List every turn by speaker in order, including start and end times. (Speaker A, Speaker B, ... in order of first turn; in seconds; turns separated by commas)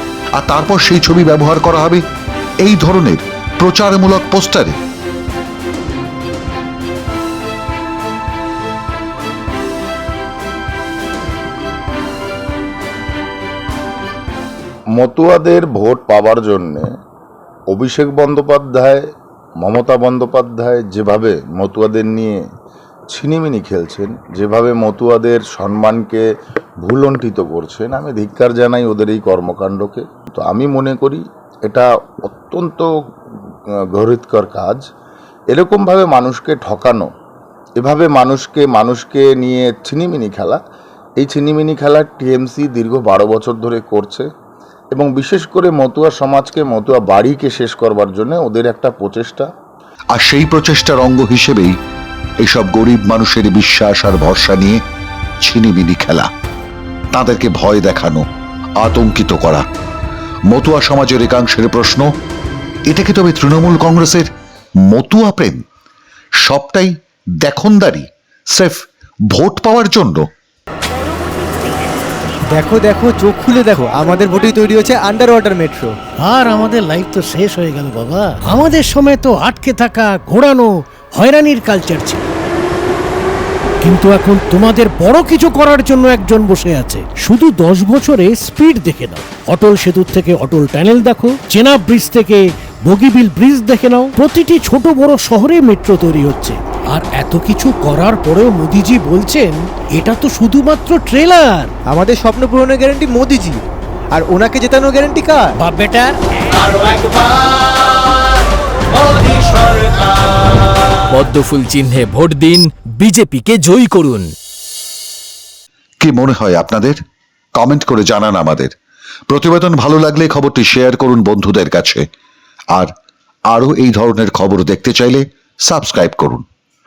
Speaker A: 0.4-2.0, Speaker A: 2.6-4.8, Speaker B: 14.9-16.9, Speaker B: 17.7-19.0, Speaker B: 19.6-22.4, Speaker B: 23.1-26.2, Speaker B: 26.8-32.9, Speaker B: 33.9-34.8, Speaker B: 35.5-37.1, Speaker B: 37.8-40.6, Speaker B: 41.2-44.3, Speaker B: 44.9-49.5, Speaker A: 50.1-51.8, Speaker A: 52.4-54.8, Speaker A: 55.4-56.3, Speaker A: 57.1-58.3, Speaker A: 58.8-59.6, Speaker A: 60.5-62.1, Speaker A: 62.9-64.3, Speaker A: 64.9-65.7, Speaker A: 66.4-70.3, Speaker C: 72.5-76.0, Speaker D: 76.2-82.2, Speaker D: 83.8-101.7, Speaker C: 101.9-103.6, Speaker C: 104.1-105.6, Speaker D: 105.6-107.2, Speaker E: 111.1-114.3, Speaker A: 116.0-117.0, Speaker A: 117.5-118.7, Speaker A: 119.3-122.1, Speaker A: 123.5-126.5